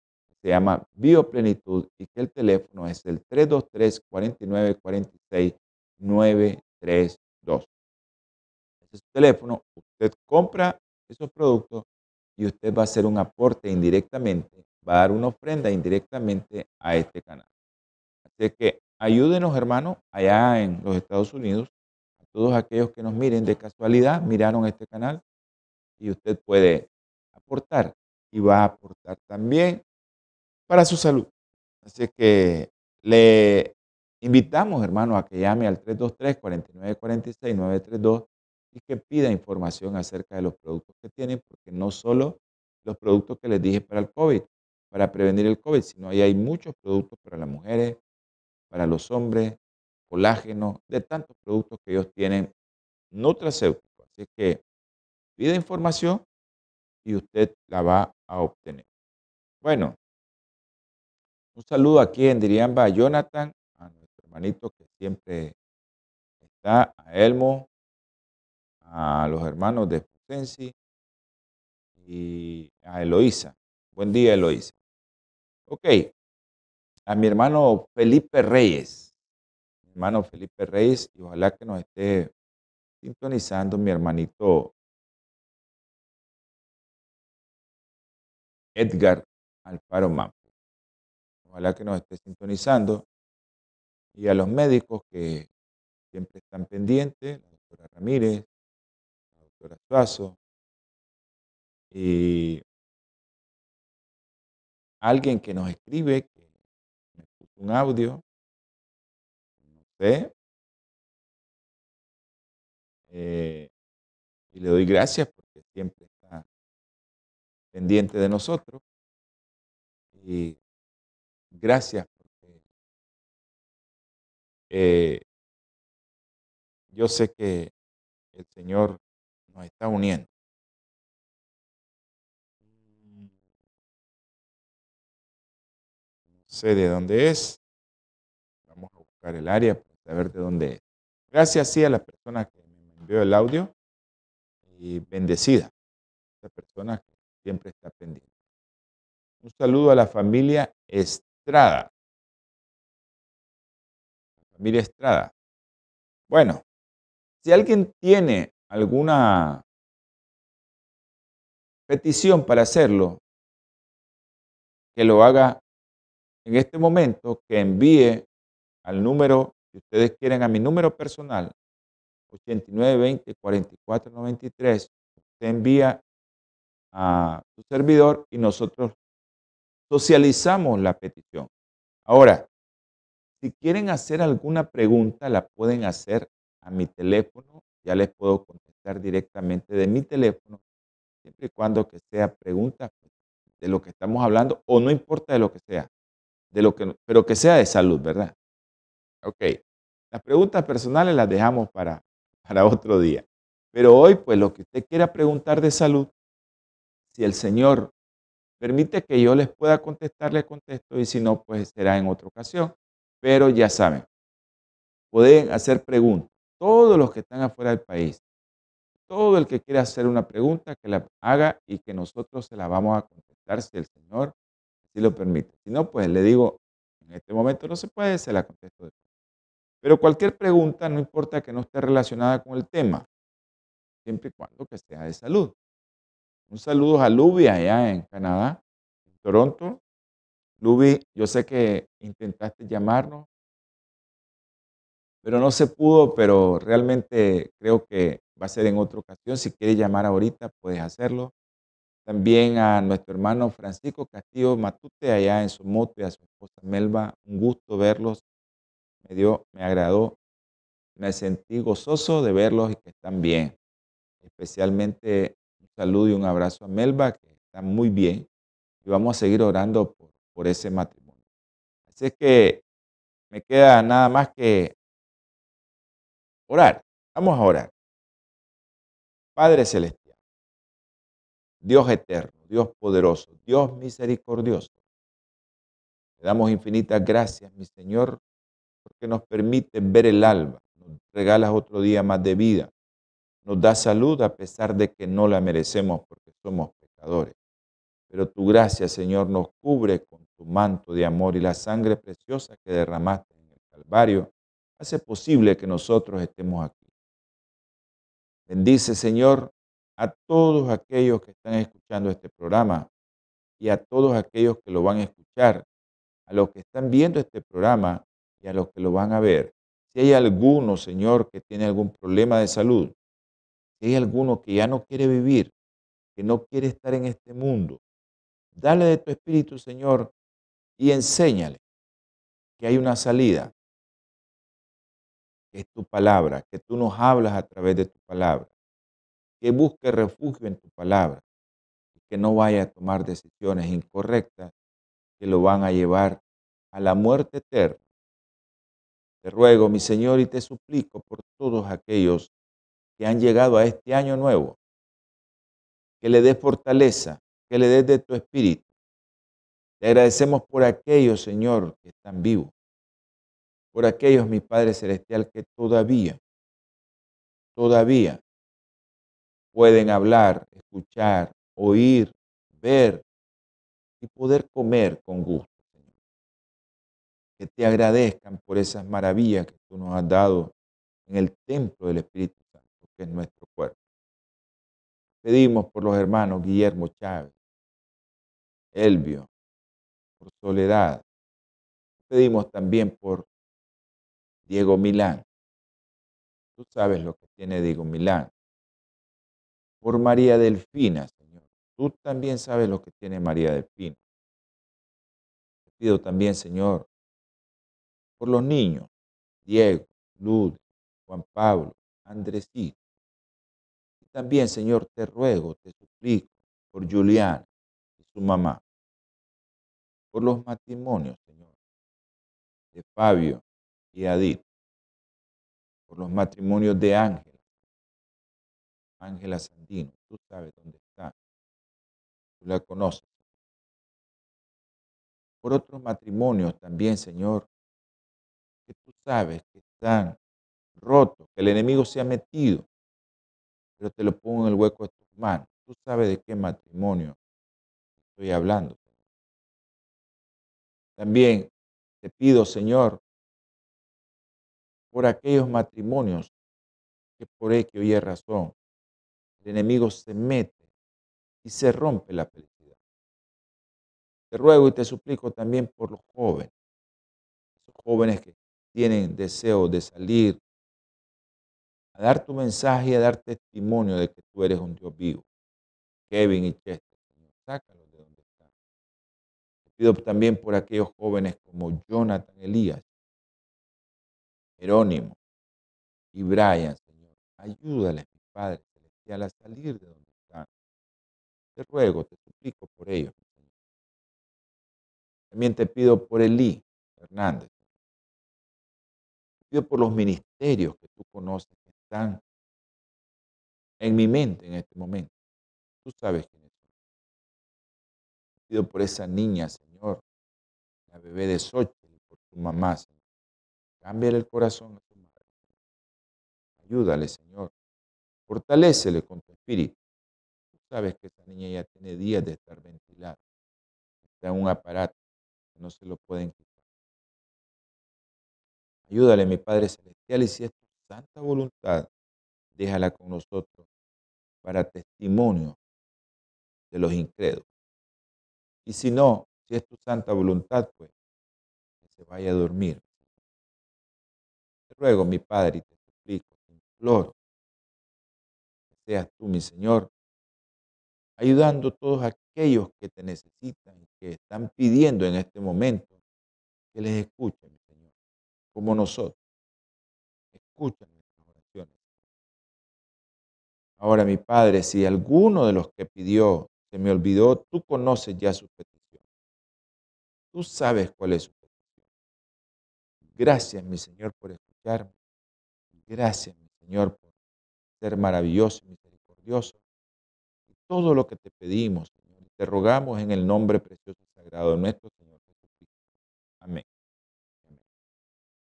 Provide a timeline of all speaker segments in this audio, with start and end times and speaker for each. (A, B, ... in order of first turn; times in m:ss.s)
0:00.4-0:07.7 A
0:08.9-0:11.8 A
0:12.4-0:17.4 A
0:18.3-0:21.7 A
0:22.2-0:25.2 A
0:26.0-0:29.8 A
0:30.7-0:31.3 A
0:31.8-0:48.0 A
0:48.7-0:52.5 A
0:53.1-0:54.6 A
0:55.4-0:56.2 A
0:57.0-0:58.8 A
0:59.6-1:00.0 A
1:01.5-1:05.5 A
1:06.4-1:07.7 A
1:08.8-1:10.7 A
1:12.0-1:14.7 A
1:15.7-1:16.1 A
1:17.1-1:19.1 A
1:19.9-1:22.3 A
1:23.0-1:24.7 A
1:28.8-1:30.4 A
1:31.5-1:33.0 A
1:34.1-1:35.5 A
1:36.1-1:38.5 A
1:39.5-1:40.4 A
1:41.9-1:42.6 A
1:45.0-1:46.4 A
1:47.2-1:48.2 A
1:49.8-1:50.3 A
1:53.1-1:53.7 A
1:54.5-1:56.4 A
1:57.7-1:58.8 A
2:00.2-2:00.6 A
2:01.5-2:02.6 A
2:04.7-2:05.2 A
2:06.9-2:07.7 A
2:08.3-2:09.0 A
2:09.5-2:10.3 A
2:16.5-2:17.6 A
2:18.7-2:20.8 A
2:21.3-2:23.7 A
2:24.7-2:25.7 A
2:26.4-2:28.3 A
2:29.4-2:31.9 A
2:34.5-2:35.3 A
2:36.3-2:36.6 A
2:37.4-2:39.6 A
2:41.9-2:43.2 A
2:44.9-2:45.6 A
2:46.4-2:48.2 A
2:48.8-2:51.5 A
2:52.3-2:56.0 A
2:56.9-2:59.0 A
2:59.9-3:01.5 A
3:02.1-3:02.5 A
3:03.4-3:10.6 A
3:11.2-3:13.0 A
3:13.6-3:15.9 A
3:16.5-3:18.3 A
3:19.2-3:19.6 A
3:20.1-3:26.1 A
3:27.1-3:27.9 A
3:28.6-3:34.1 A
3:35.1-3:38.2 A
3:39.1-3:44.3 A
3:44.9-3:48.9 A
3:49.8-3:53.0 A
3:54.0-3:55.5 A
3:56.5-3:58.6 A
3:59.2-3:59.8 A
4:00.6-4:03.3 A
4:05.2-4:11.3 A
4:12.0-4:18.2 A
4:19.0-4:20.2 A
4:21.0-4:23.6 A
4:24.2-4:28.3 A
4:28.8-4:31.1 A
4:31.9-4:32.6 A
4:33.3-4:34.7 A
4:36.5-4:37.7 A
4:39.4-4:40.1 A
4:41.6-4:44.7 A
4:46.2-4:48.2 A
4:48.8-4:52.7 A
4:53.4-4:57.3 A
4:58.1-5:06.8 A
5:08.5-5:12.9 A
5:13.6-5:15.6 A
5:16.3-5:22.9 A
5:23.8-5:25.5 A
5:26.2-5:27.8 A
5:28.6-5:30.1 A
5:30.8-5:31.6 A
5:32.6-5:33.5 A
5:35.5-5:38.5 A
5:39.4-5:41.2 A
5:42.0-5:44.5 A
5:45.2-5:46.2 A
5:46.7-5:47.8 A
5:49.2-5:52.3 A
5:53.0-5:54.6 A
5:56.0-5:58.7 A
5:59.8-6:02.5 A
6:03.7-6:06.2 A
6:07.5-6:08.2 A
6:09.5-6:13.0 A
6:14.0-6:15.6 A
6:17.4-6:20.5 A
6:21.1-6:23.8 A
6:25.2-6:27.3 A
6:28.7-6:29.3 A
6:30.2-6:31.0 A
6:32.0-6:33.3 A
6:34.5-6:35.2 A
6:36.6-6:38.3 A
6:39.8-6:44.0 A
6:45.7-6:46.9 A
6:48.2-6:48.9 A
6:49.4-6:52.8 A
6:54.0-6:57.5 A
6:58.0-6:58.6 A
7:00.1-7:01.4 A
7:02.7-7:04.4 A
7:05.9-7:07.3 A
7:09.0-7:11.1 A
7:12.4-7:13.1 A
7:15.4-7:17.5 A
7:18.7-7:20.2 A
7:20.8-7:22.6 A
7:23.8-7:27.2 A
7:28.1-7:28.8 A
7:31.0-7:31.5 A
7:32.0-7:33.0 A
7:34.9-7:36.3 A
7:37.2-7:38.5 A
7:39.4-7:40.6 A
7:41.4-7:42.7 A
7:44.3-7:46.5 A
7:47.6-7:50.4 A
7:51.9-7:55.2 A
7:56.1-7:58.2 A
7:59.7-8:02.8 A
8:04.6-8:05.2 A
8:06.1-8:10.5 A
8:11.6-8:13.2 A
8:15.3-8:17.5 A
8:19.5-8:22.2 A
8:23.8-8:25.1 A
8:25.8-8:26.4 A
8:28.5-8:30.0 A
8:30.9-8:32.9 A
8:33.8-8:35.0 A
8:36.6-8:37.5 A
8:38.3-8:39.8 A
8:40.5-8:43.2 A
8:44.2-8:44.9 A
8:45.6-8:46.4 A
8:48.9-8:51.9 A
8:52.6-8:53.6 A
8:54.4-8:55.6 A
8:56.7-8:57.4 A
8:58.6-9:00.9 A
9:01.9-9:02.8 A
9:04.7-9:07.1 A
9:08.7-9:09.9 A
9:11.2-9:15.9 A
9:16.7-9:17.6 A
9:18.5-9:19.2 A
9:20.3-9:21.7 A
9:23.8-9:28.8 A
9:30.3-9:31.5 A
9:33.1-9:34.9 A
9:35.8-9:37.0 A
9:37.8-9:39.6 A
9:40.5-9:45.7 A